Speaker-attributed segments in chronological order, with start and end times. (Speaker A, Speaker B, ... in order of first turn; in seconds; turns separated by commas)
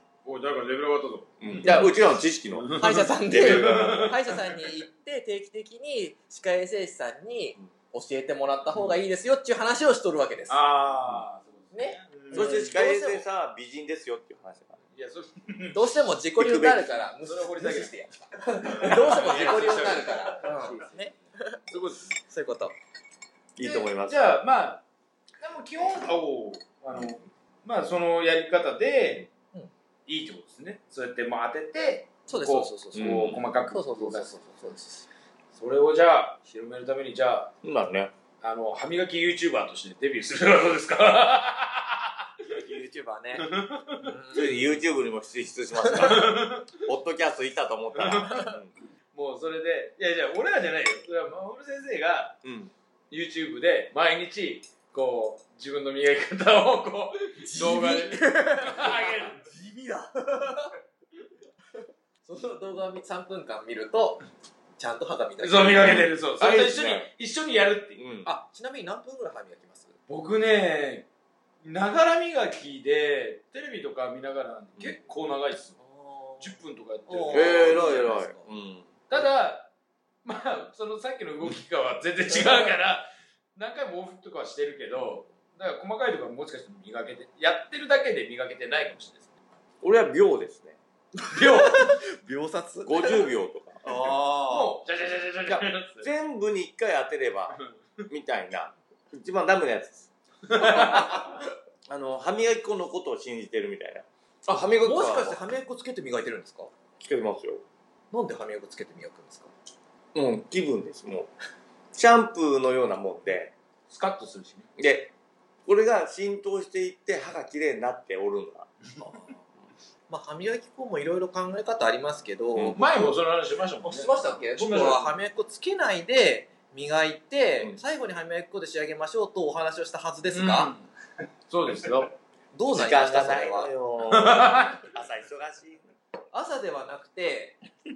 Speaker A: 0.2-1.9, Speaker B: 1.4-4.2, Speaker A: 2.5-4.6, Speaker C: 2.8-10.6, Speaker A: 10.5-12.7, Speaker C: 11.7-13.2, Speaker B: 12.3-14.8, Speaker A: 14.9-15.8, Speaker C: 15.7-21.6, Speaker B: 16.4-16.9, Speaker A: 17.2-18.0, Speaker A: 18.5-21.1, Speaker A: 21.7-22.1, Speaker C: 22.2-22.8, Speaker B: 23.6-24.3, Speaker A: 23.6-24.8, Speaker A: 25.4-29.3, Speaker A: 30.1-34.4, Speaker C: 32.3-35.1, Speaker B: 33.0-33.4, Speaker A: 35.5-37.5, Speaker B: 37.6-38.1, Speaker A: 38.4-42.5, Speaker C: 42.5-43.5, Speaker A: 43.4-44.5, Speaker C: 44.0-44.6, Speaker B: 44.3-48.7, Speaker A: 45.9-46.8, Speaker A: 47.9-48.5, Speaker A: 49.1-52.4, Speaker B: 52.4-52.7, Speaker A: 53.1-59.5, Speaker C: 57.4-60.7, Speaker C: 62.2-64.2, Speaker C: 64.8-66.0, Speaker A: 65.4-68.0, Speaker B: 65.7-67.1, Speaker B: 68.0-68.3, Speaker C: 68.2-69.9, Speaker A: 70.1-71.1, Speaker A: 71.6-75.8, Speaker C: 75.8-76.5, Speaker A: 76.4-78.0, Speaker C: 77.1-78.5, Speaker B: 77.3-79.0, Speaker A: 79.1-79.7, Speaker A: 80.2-89.3, Speaker B: 89.8-90.8, Speaker C: 91.2-93.3, Speaker A: 91.3-91.9, Speaker B: 92.8-94.2, Speaker C: 93.8-94.7, Speaker A: 94.5-96.1, Speaker B: 95.5-97.6, Speaker A: 97.5-98.0, Speaker B: 98.1-105.4, Speaker A: 100.5-101.3, Speaker C: 104.8-106.7, Speaker B: 107.0-107.6, Speaker C: 108.1-109.5, Speaker B: 110.1-111.3, Speaker B: 111.9-113.5, Speaker A: 113.9-114.7, Speaker B: 114.8-115.1, Speaker B: 115.7-119.4, Speaker C: 120.1-123.1, Speaker B: 122.5-122.8, Speaker A: 122.8-125.1, Speaker C: 123.8-130.7, Speaker A: 130.3-130.9, Speaker A: 131.5-132.1, Speaker C: 132.5-133.7, Speaker B: 132.7-135.9, Speaker A: 134.1-134.9, Speaker C: 136.3-137.6